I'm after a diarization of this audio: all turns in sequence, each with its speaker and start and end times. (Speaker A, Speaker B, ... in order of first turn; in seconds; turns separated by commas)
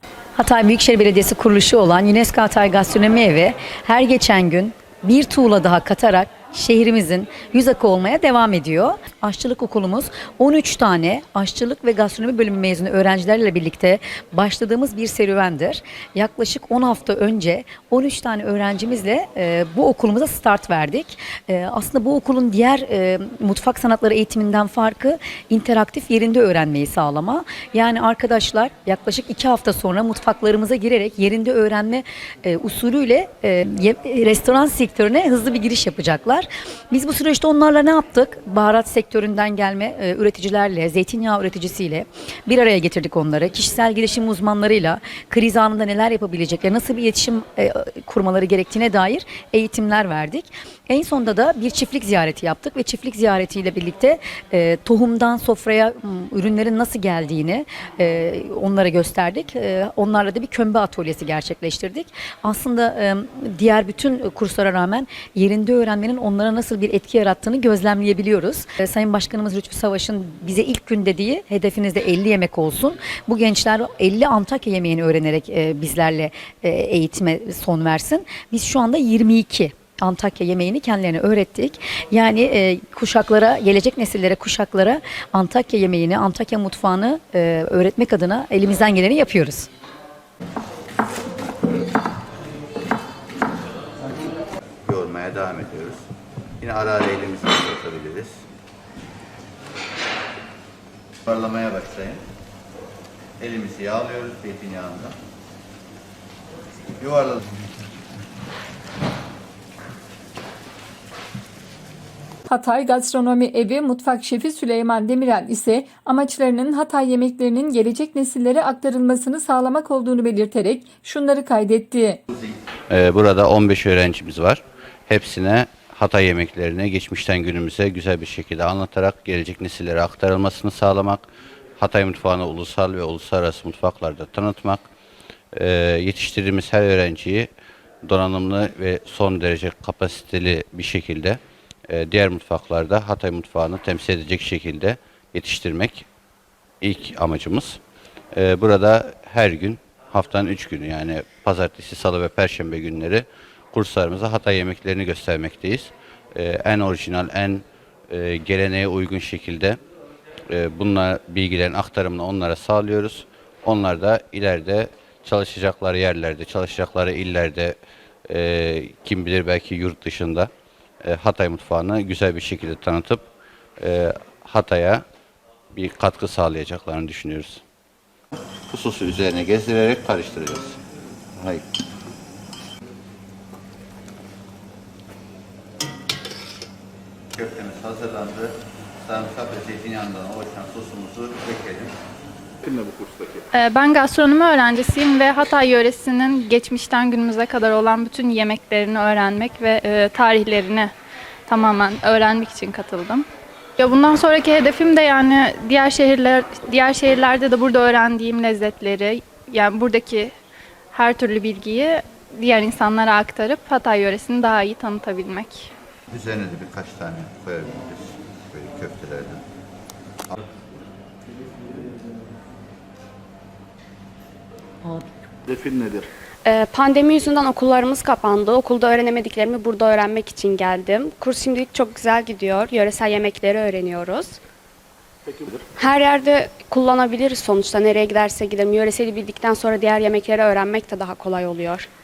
Speaker A: 0.4-89.7, Speaker B: 94.9-96.1, Speaker B: 96.6-98.5, Speaker B: 101.3-102.2, Speaker B: 103.4-105.2, Speaker B: 107.0-107.4, Speaker C: 112.5-122.2, Speaker B: 122.9-131.2, Speaker B: 131.8-134.8, Speaker B: 135.5-137.5, Speaker B: 138.0-146.1, Speaker B: 146.8-147.8, Speaker B: 148.3-159.8, Speaker B: 160.5-167.8, Speaker B: 168.3-170.5, Speaker B: 171.0-173.2, Speaker B: 173.8-175.0, Speaker B: 175.7-177.6, Speaker B: 178.7-180.8, Speaker B: 181.4-181.6, Speaker B: 187.3-191.9, Speaker D: 192.6-193.4, Speaker E: 193.5-200.9, Speaker E: 201.5-203.3, Speaker E: 203.8-210.3, Speaker E: 210.9-215.7, Speaker B: 216.1-219.4, Speaker D: 225.4-226.1, Speaker F: 226.4-234.4, Speaker D: 235.3-235.7, Speaker F: 235.8-241.9